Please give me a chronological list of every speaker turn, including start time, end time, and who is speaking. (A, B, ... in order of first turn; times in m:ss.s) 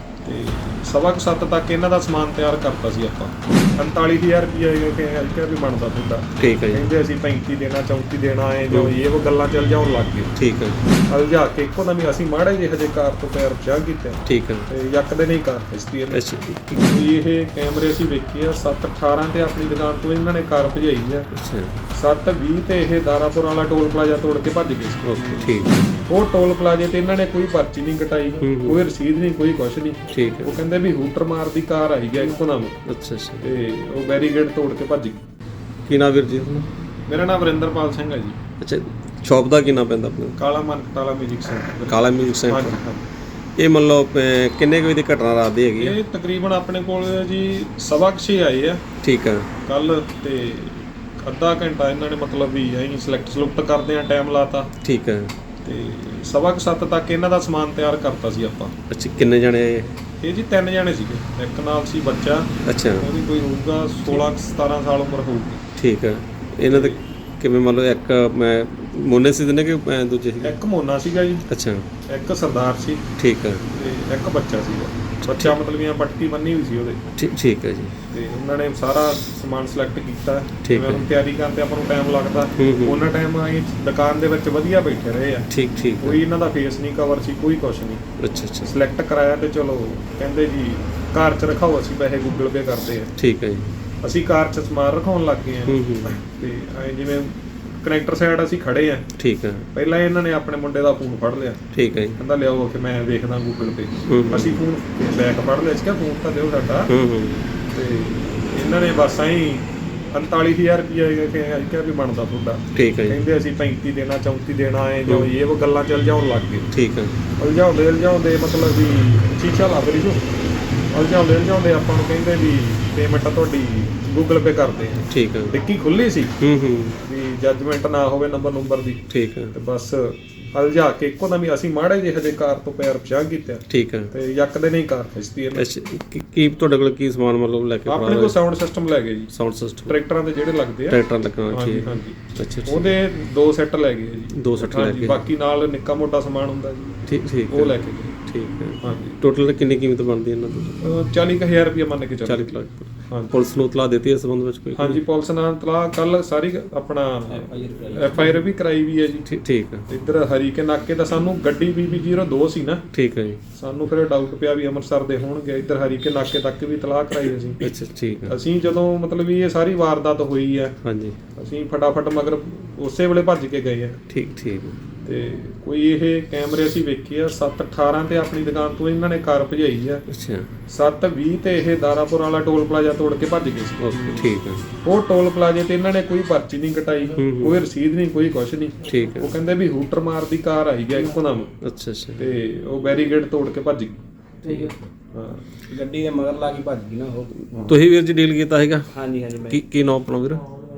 0:00.2-0:10.3 A
0:06.4-0:06.8 B
0:10.3-0:10.8 B
0:11.1-0:16.2 A
0:14.2-0:14.7 B
0:16.1-0:16.8 B
0:16.8-0:21.3 A
0:21.3-0:21.7 B
0:21.9-0:25.5 A
0:25.0-0:25.8 B
0:26.1-0:32.8 A
0:28.4-0:28.8 B
0:30.1-0:30.6 B
0:32.8-0:33.4 B
0:33.4-0:35.2 A
0:35.8-0:36.7 B
0:37.1-0:38.4 A
0:38.6-0:40.4 B
0:40.4-0:43.0 A
0:41.9-0:42.8 B
0:43.6-0:46.0 B
0:45.8-0:48.8 A
0:49.0-0:49.5 B
0:49.6-0:54.7 A
0:54.8-0:55.3 B
0:55.6-0:58.7 A
0:58.9-0:59.9 B
1:00.2-1:05.6 A
1:02.6-1:03.1 B
1:05.8-1:10.6 B
1:06.7-1:07.0 A
1:10.4-1:11.5 A
1:11.5-1:11.9 B
1:12.1-1:13.1 A
1:13.2-1:13.6 B
1:13.7-1:17.0 A
1:15.2-1:15.5 B
1:17.2-1:17.9 B
1:18.1-1:25.5 A
1:20.6-1:21.1 B
1:22.6-1:23.0 B
1:25.5-1:26.2 B
1:26.0-1:28.1 A
1:28.2-1:28.7 B
1:28.6-1:33.1 A
1:33.2-1:33.7 B
1:34.0-1:39.1 A
1:35.7-1:36.2 B
1:39.2-1:39.7 B
1:39.7-1:46.9 A
1:41.7-1:42.2 B
1:44.1-1:44.6 B
1:46.9-1:47.4 B
1:47.7-1:56.7 A
1:52.7-1:53.2 B
1:56.7-1:57.1 B
1:57.4-2:00.2 A
2:00.9-2:06.4 A
2:05.1-2:05.5 B
2:06.4-2:07.0 B
2:07.0-2:15.7 A
2:09.1-2:09.5 B
2:13.7-2:14.1 B
2:15.5-2:18.3 B
2:17.9-2:19.3 A
2:19.3-2:19.9 B
2:19.8-2:21.0 A
2:20.9-2:22.9 B
2:21.5-2:28.2 A
2:24.3-2:25.2 B
2:27.0-2:30.8 B
2:28.8-2:29.2 A
2:30.8-2:32.6 A
2:32.2-2:35.0 B
2:34.8-2:39.3 A
2:37.3-2:38.4 C
2:39.3-2:39.9 B
2:39.9-2:42.8 A
2:42.9-2:43.4 B
2:43.5-2:47.7 A
2:47.6-2:48.4 B
2:48.3-2:50.8 A
2:50.8-2:51.2 B
2:51.4-2:54.0 A
2:54.1-2:54.8 B
2:55.0-3:00.0 A
3:00.1-3:00.5 B
3:00.7-3:04.2 A
3:03.8-3:04.6 B
3:04.8-3:11.5 A
3:07.2-3:07.6 B
3:08.8-3:09.3 B
3:11.6-3:12.2 B
3:12.2-3:14.0 A
3:14.4-3:14.8 C
3:15.1-3:15.4 A
3:15.7-3:17.3 C
3:17.7-3:18.9 B
3:18.9-3:19.6 C
3:19.5-3:20.5 B